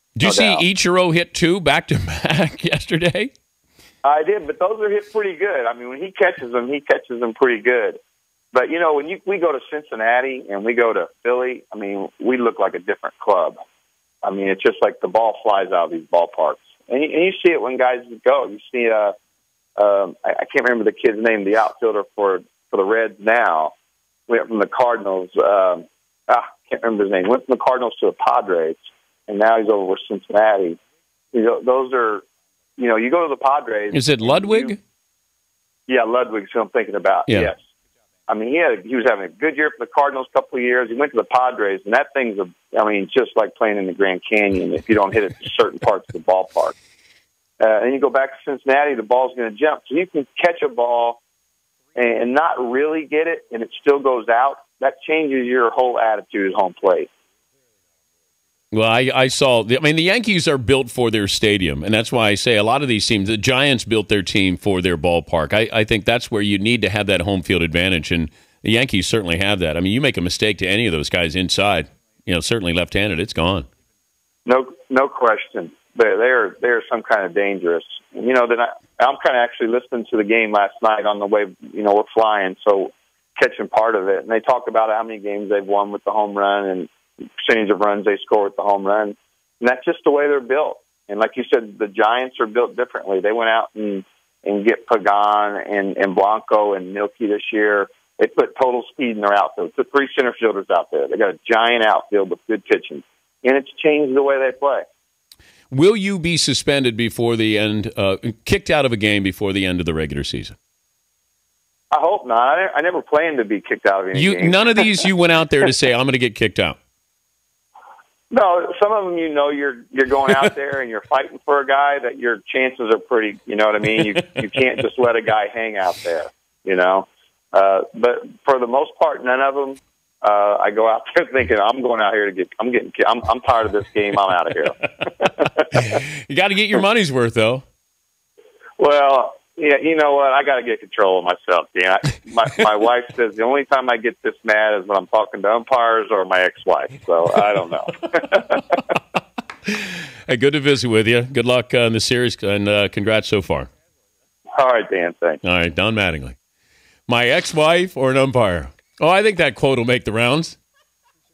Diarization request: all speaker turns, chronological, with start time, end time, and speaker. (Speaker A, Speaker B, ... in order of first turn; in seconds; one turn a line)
Speaker A: 0.1-3.3
Speaker B: 0.2-0.6
Speaker B: 4.0-8.0
Speaker B: 8.5-13.6
Speaker B: 14.2-19.1
Speaker B: 19.8-23.7
Speaker B: 24.3-30.8
Speaker B: 31.3-32.2
Speaker B: 32.8-34.8
Speaker A: 33.9-34.8
Speaker B: 35.9-37.6
Speaker A: 37.3-37.5
Speaker B: 38.3-46.7
Speaker B: 47.6-51.2
Speaker B: 52.0-57.1
Speaker A: 58.7-73.7
Speaker B: 74.4-104.8
Speaker A: 105.7-110.5
Speaker B: 111.9-114.9
Speaker A: 114.1-116.8
Speaker B: 118.3-135.8
Speaker A: 135.7-137.6
Speaker B: 138.8-148.6
Speaker A: 150.3-153.7
Speaker B: 154.5-155.4
Speaker A: 155.4-156.3
Speaker A: 157.1-160.6